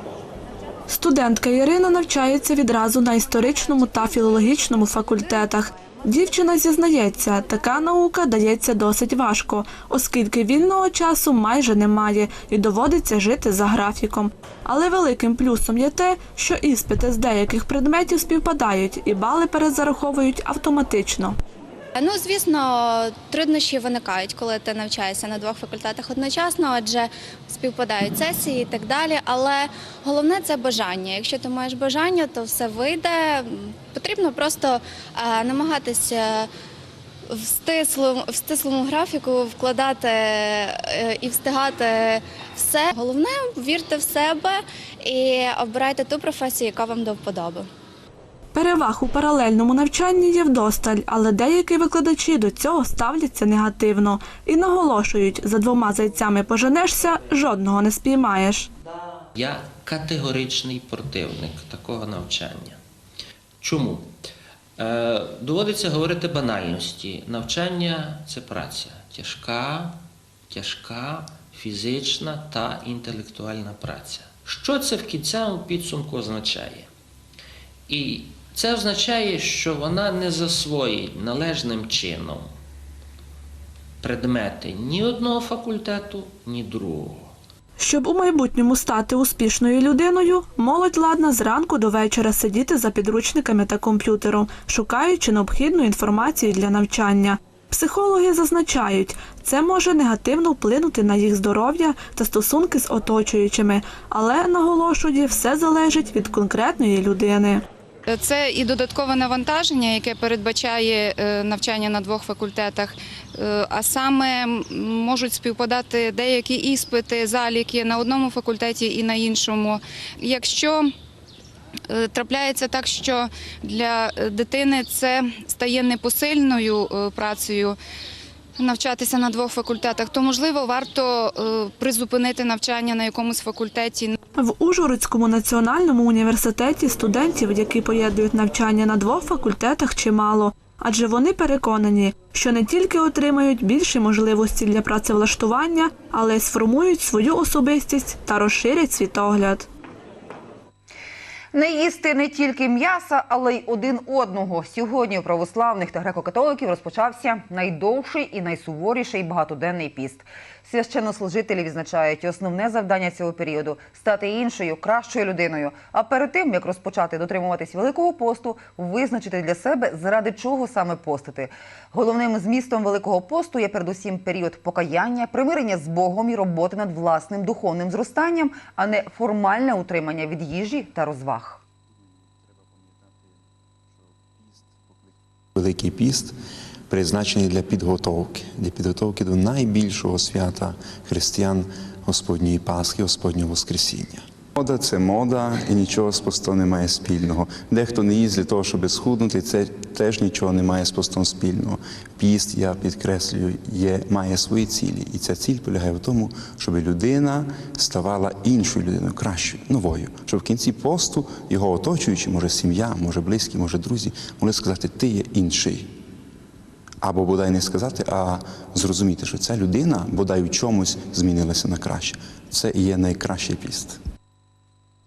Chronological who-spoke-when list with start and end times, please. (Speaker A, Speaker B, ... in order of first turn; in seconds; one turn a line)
Speaker A: 0.9-21.3
Speaker B: 21.9-36.5
Speaker B: 37.3-47.7
Speaker A: 48.5-58.7
Speaker C: 59.4-62.8
Speaker C: 63.6-64.1
Speaker C: 64.8-76.9
Speaker C: 77.9-82.5
Speaker C: 84.0-87.3
Speaker A: 87.8-107.6
Speaker D: 108.1-120.9
Speaker D: 121.9-127.8
Speaker D: 128.6-134.1
Speaker A: 134.4-149.7
Speaker E: 151.5-181.6
Speaker F: 185.6-186.3
Speaker F: 186.9-215.9
Speaker F: 217.0-224.0